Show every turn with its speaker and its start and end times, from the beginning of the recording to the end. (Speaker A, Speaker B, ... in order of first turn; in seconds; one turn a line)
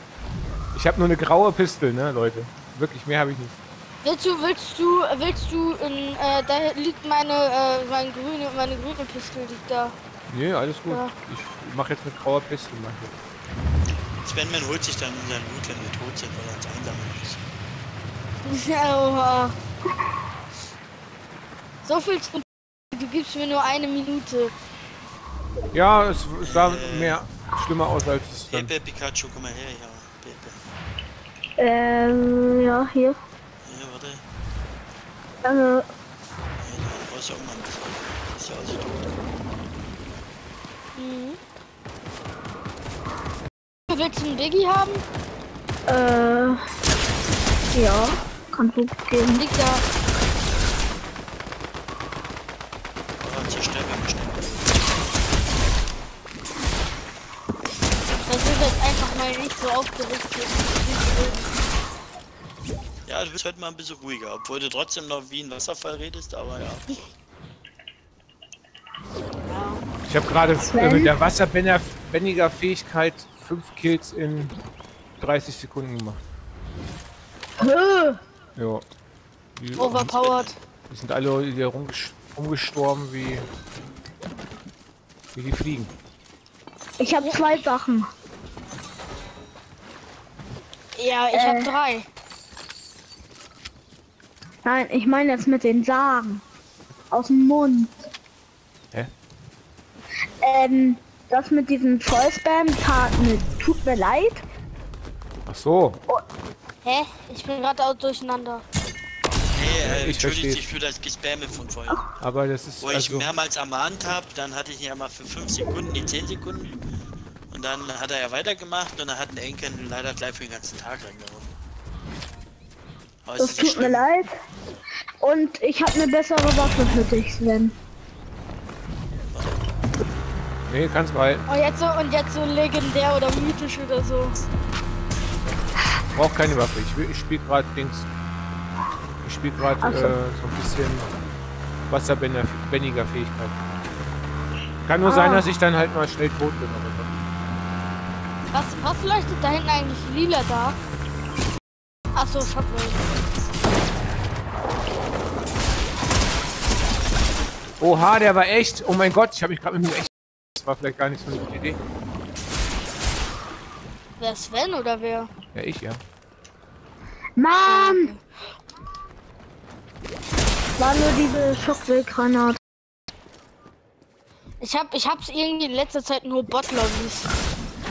Speaker A: 0.7-3.5
Speaker B: 4.0-9.9
Speaker A: 10.3-13.1
Speaker C: 14.2-17.4
Speaker B: 18.4-19.5
Speaker B: 21.8-24.5
Speaker A: 25.7-28.7
Speaker C: 26.4-27.2
Speaker C: 28.5-30.6
Speaker D: 31.6-33.2
Speaker C: 33.6-34.2
Speaker D: 35.4-35.9
Speaker C: 36.6-39.1
Speaker B: 41.0-41.4
Speaker B: 43.9-45.0
Speaker D: 45.9-46.6
Speaker D: 47.7-49.4
Speaker B: 49.3-49.8
Speaker C: 53.2-55.3
Speaker B: 58.2-61.5
Speaker C: 63.1-67.0
Speaker B: 69.5-69.8
Speaker A: 70.1-74.5
Speaker D: 70.7-71.1
Speaker A: 75.2-76.2
Speaker D: 77.6-78.2
Speaker A: 78.6-78.8
Speaker A: 79.6-80.2
Speaker B: 79.8-80.6
Speaker C: 80.2-80.5
Speaker A: 80.9-83.5
Speaker A: 85.3-85.9
Speaker D: 87.0-88.1
Speaker B: 91.0-92.1
Speaker D: 91.3-91.7
Speaker D: 94.6-96.4
Speaker D: 97.1-97.9
Speaker D: 100.4-104.4
Speaker A: 105.5-106.0
Speaker B: 106.8-108.7
Speaker C: 109.5-112.0
Speaker A: 109.8-110.7
Speaker A: 112.2-113.3
Speaker C: 112.8-116.8
Speaker C: 117.5-121.5
Speaker C: 123.2-124.1
Speaker D: 123.4-124.3
Speaker D: 125.2-127.8
Speaker C: 129.3-129.6
Speaker A: 130.7-131.5
Speaker B: 131.5-134.4
Speaker A: 136.1-138.1
Speaker A: 139.2-141.1
Speaker D: 139.8-140.2
Speaker A: 141.9-143.6
Speaker A: 144.8-147.1
Speaker D: 145.1-145.5
Speaker B: 148.5-150.8
Speaker B: 152.2-153.0
Speaker A: 157.8-161.8
Speaker B: 164.2-165.3
Speaker A: 165.5-166.0
Speaker D: 167.4-168.1
Speaker B: 167.7-168.2
Speaker D: 170.8-172.6
Speaker B: 174.6-177.3